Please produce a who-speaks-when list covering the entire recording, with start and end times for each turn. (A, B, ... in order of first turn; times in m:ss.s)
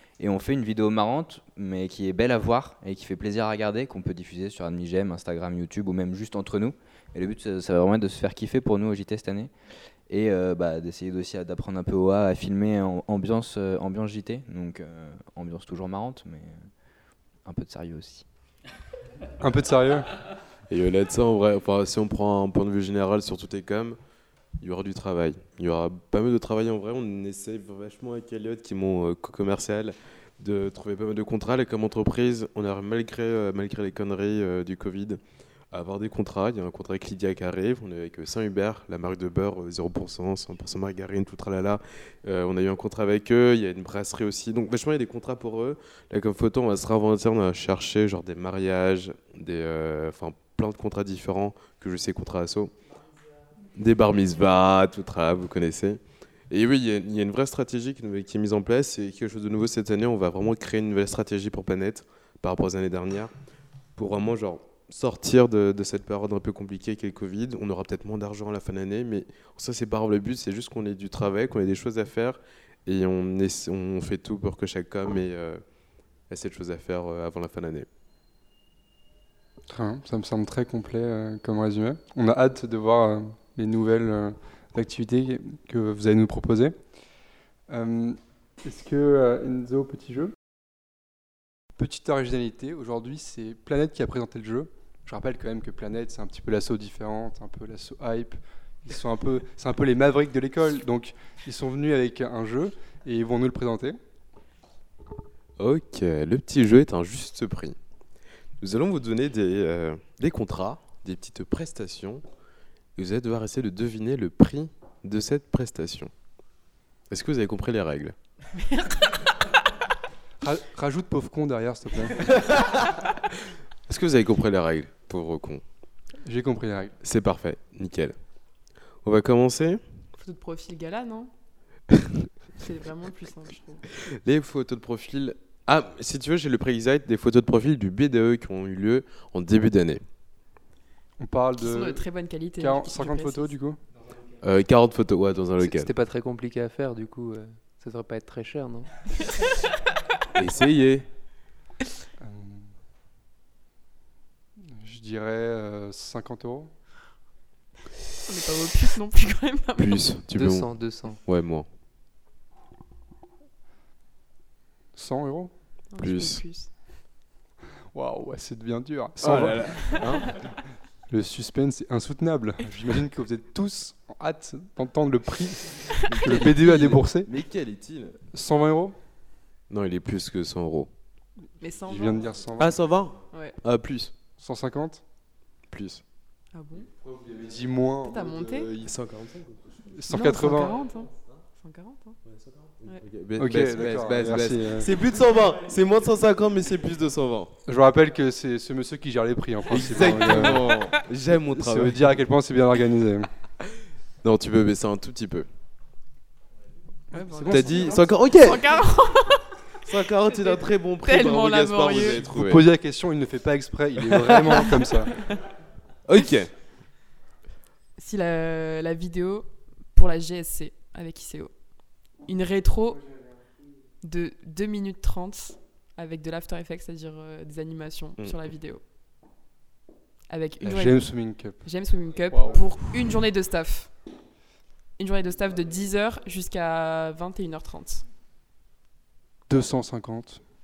0:00.2-0:09.5 A
0:10.1-0:16.5 A
0:17.4-0:18.2 A
0:19.4-0:20.3 B
0:20.7-0:24.0 C
0:24.6-0:35.2 C
0:35.7-0:52.7 C
0:53.8-1:03.3 C
1:04.0-1:15.6 C
1:16.3-1:17.9 C
1:19.7-1:26.7 B
1:27.7-1:30.3 B
1:31.8-1:44.0 B
1:45.6-1:47.7 C
1:48.6-1:52.2 C
1:53.0-1:56.1 C
1:57.1-1:58.1 C
1:58.5-1:59.2 D
2:00.4-2:02.3 B
2:02.2-2:03.3 C
2:03.9-2:05.6 C
2:06.2-2:06.9 B
2:07.0-2:08.1 C
2:09.0-2:09.8 C
2:10.2-2:11.3 D
2:12.6-2:13.8 D
2:14.0-2:20.0 C
2:21.2-2:22.0 B
2:21.6-2:23.5 D
2:22.6-2:23.8 B
2:24.4-2:25.9 C
2:25.6-2:29.3 E
2:30.3-2:31.1 C
2:32.2-2:32.7 B
2:34.7-2:36.7 B
2:38.2-2:40.1 D
2:39.8-2:40.7 C
2:40.3-2:41.2 E
2:41.2-2:41.7 C
2:45.0-2:45.5 B
2:45.9-2:46.7 D
2:46.0-2:46.4 C
2:47.9-2:50.0 B
2:49.2-2:50.4 C
2:51.1-2:57.3 B
2:56.1-2:58.2 C
2:56.1-2:56.5 D
2:58.3-2:59.0 B
2:59.7-3:00.9 C
3:01.6-3:02.3 D
3:01.9-3:02.8 B
3:02.6-3:04.2 C
3:03.3-3:03.6 D
3:04.4-3:05.0 B
3:05.7-3:06.0 C
3:06.5-3:06.9 D
3:06.9-3:08.9 B
3:08.0-3:08.7 D
3:08.8-3:09.7 C
3:09.9-3:10.8 B
3:10.1-3:12.2 D
3:12.3-3:17.6 C
3:13.4-3:14.9 B
3:17.7-3:20.7 B
3:19.7-3:22.2 C
3:20.3-3:20.9 D
3:21.3-3:23.3 B
3:24.2-3:25.5 C
3:27.1-3:28.2 B
3:27.1-3:29.6 D
3:27.5-3:28.6 C
3:29.8-3:32.7 C
3:30.2-3:32.2 D
3:32.0-3:35.1 B
3:34.0-3:34.7 C
3:34.6-3:35.4 D
3:36.0-3:36.5 C
3:38.0-3:41.5 D
3:42.2-3:43.0 D
3:44.0-3:48.8 D
3:50.3-3:53.9 D
3:50.6-3:51.6 B
3:52.3-3:52.8 B
3:55.0-3:58.0 D
3:59.5-4:00.4 B